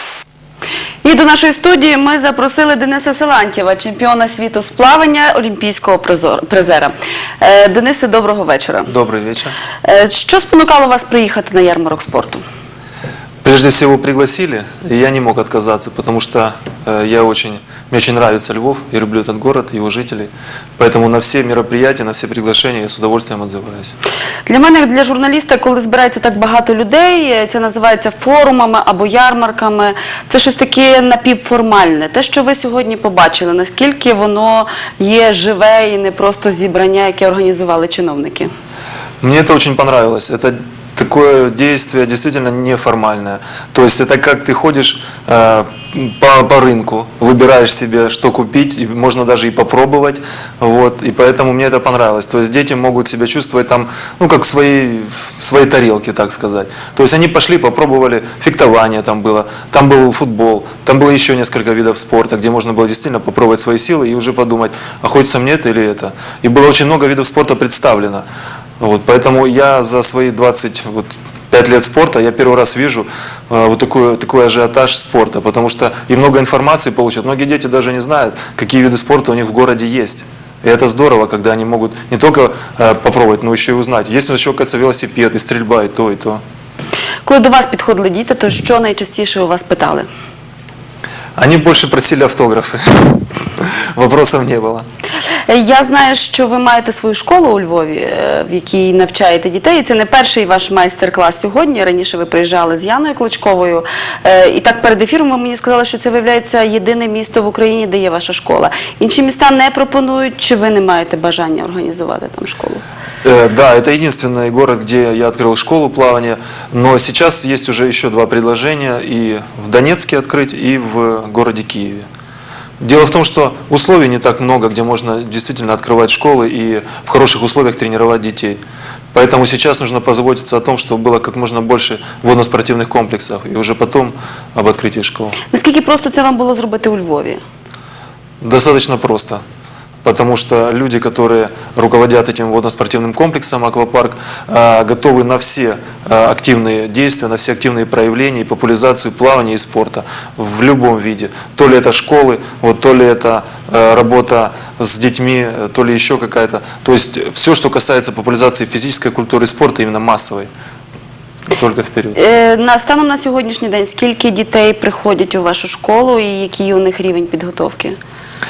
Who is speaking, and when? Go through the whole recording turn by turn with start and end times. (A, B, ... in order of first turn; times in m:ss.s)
0:01.0-0:08.9 A
0:08.9-0:09.5 B
0:09.8-0:12.4 A
0:13.4-0:24.0 B
0:24.4-0:38.5 A
0:39.2-1:08.2 B
1:08.8-1:26.4 B
1:27.2-1:30.1 A
1:31.4-1:34.8 B
1:35.5-1:52.8 A
1:53.2-2:02.0 B
2:02.8-2:08.6 B
2:09.1-2:15.4 B
2:15.5-2:17.4 A
2:18.4-2:19.4 B
2:20.0-2:40.5 B
2:41.5-2:42.2 B
2:42.2-2:48.0 A